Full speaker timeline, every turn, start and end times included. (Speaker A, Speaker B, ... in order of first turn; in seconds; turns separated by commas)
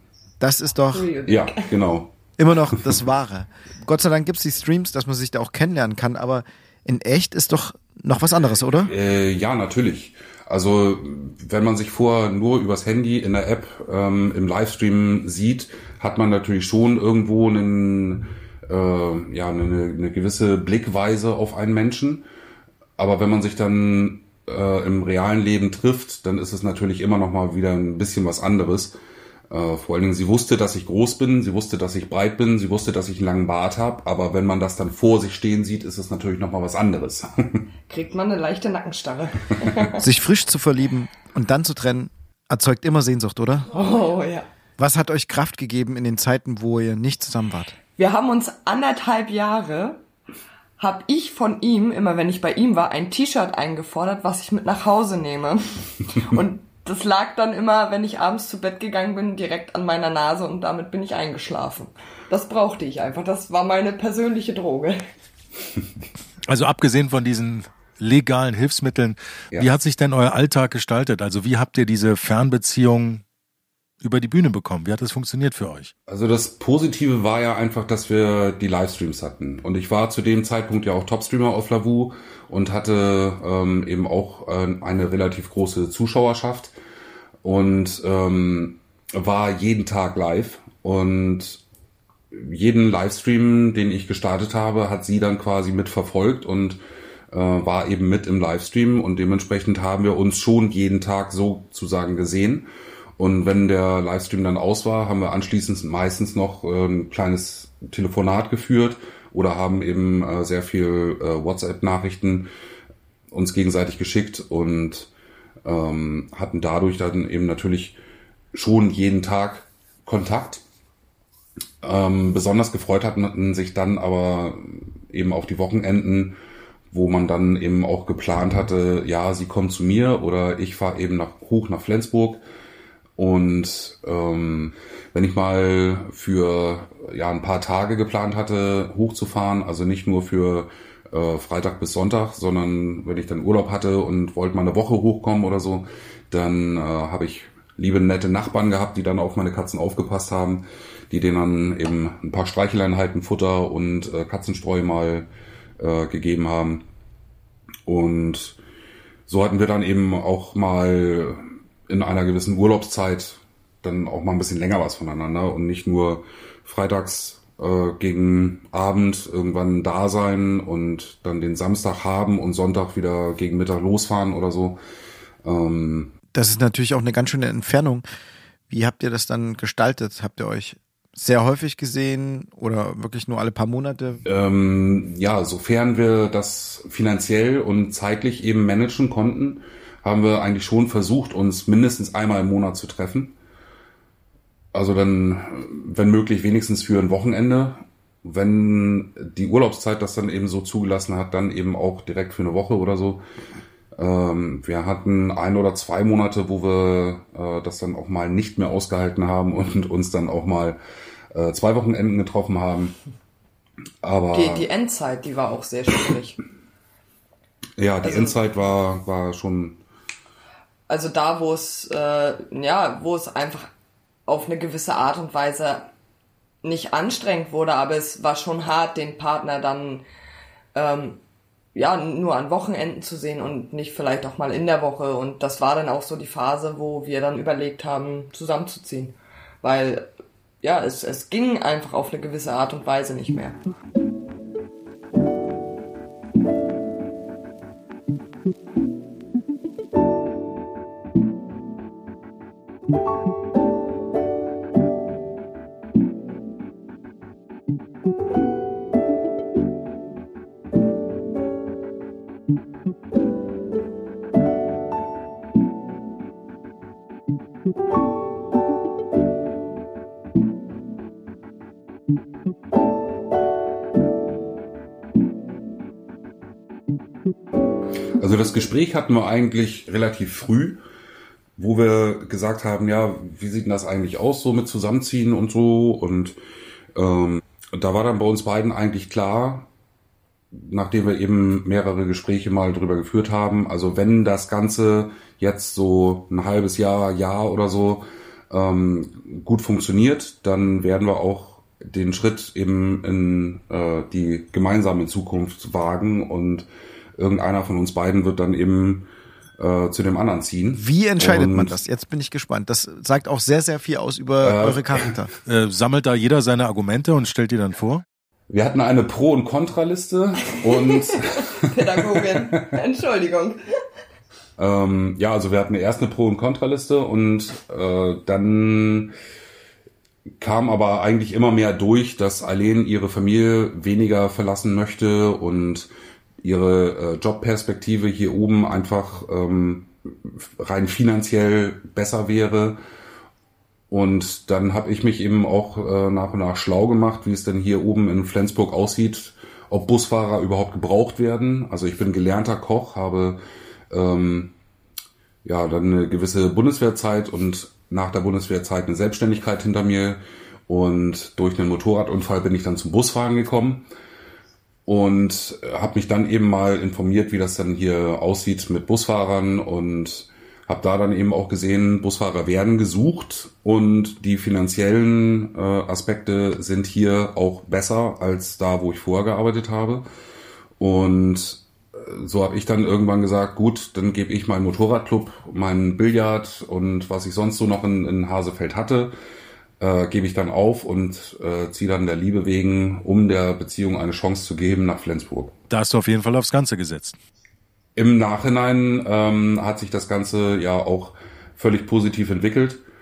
Speaker A: 0.4-1.1, Speaker B: 0.9-1.7, Speaker C: 1.3-2.1, Speaker A: 2.4-8.9, Speaker C: 8.8-22.2, Speaker C: 23.0-28.9, Speaker C: 29.5-37.7, Speaker B: 37.9-40.0, Speaker A: 40.0-43.7, Speaker B: 43.7-44.5, Speaker A: 44.8-47.7, Speaker B: 48.0-50.0, Speaker B: 50.8-65.0, Speaker D: 66.5-73.2, Speaker D: 74.0-75.9, Speaker C: 76.1-86.7, Speaker C: 87.4-91.6, Speaker C: 92.3-96.8, Speaker C: 97.3-102.7, Speaker C: 103.2-112.5, Speaker C: 113.3-115.1, Speaker C: 115.6-118.0, Speaker C: 118.5-120.6, Speaker C: 121.8-126.4, Speaker C: 126.9-132.4, Speaker C: 133.2-155.3, Speaker C: 155.8-156.8, Speaker C: 157.8-158.6, Speaker C: 159.3-174.8, Speaker C: 175.4-176.1, Speaker A: 176.3-178.0, Speaker A: 178.7-184.2, Speaker C: 184.2-193.3, Speaker C: 194.7-203.2, Speaker C: 203.9-210.8, Speaker C: 211.3-212.9, Speaker C: 214.0-214.7, Speaker B: 214.3-216.4, Speaker C: 217.8-219.8, Speaker B: 218.0-218.4, Speaker B: 220.9-223.7, Speaker B: 224.3-225.9, Speaker B: 226.6-230.0, Speaker B: 230.7-231.2, Speaker B: 231.7-240.1, Speaker B: 240.6-243.6, Speaker C: 278.2-280.8, Speaker C: 281.6-286.4, Speaker C: 286.9-289.7, Speaker C: 290.5-311.8, Speaker A: 310.7-315.3, Speaker C: 314.4-315.2, Speaker D: 315.4-318.0, Speaker C: 318.5-322.7, Speaker B: 320.7-323.6, Speaker C: 324.6-329.1, Speaker C: 330.4-335.9, Speaker C: 336.4-342.8, Speaker C: 343.9-354.5, Speaker C: 355.4-363.9, Speaker C: 364.9-380.0, Speaker C: 380.8-389.1, Speaker C: 389.8-395.5, Speaker D: 395.7-397.2, Speaker C: 397.9-402.8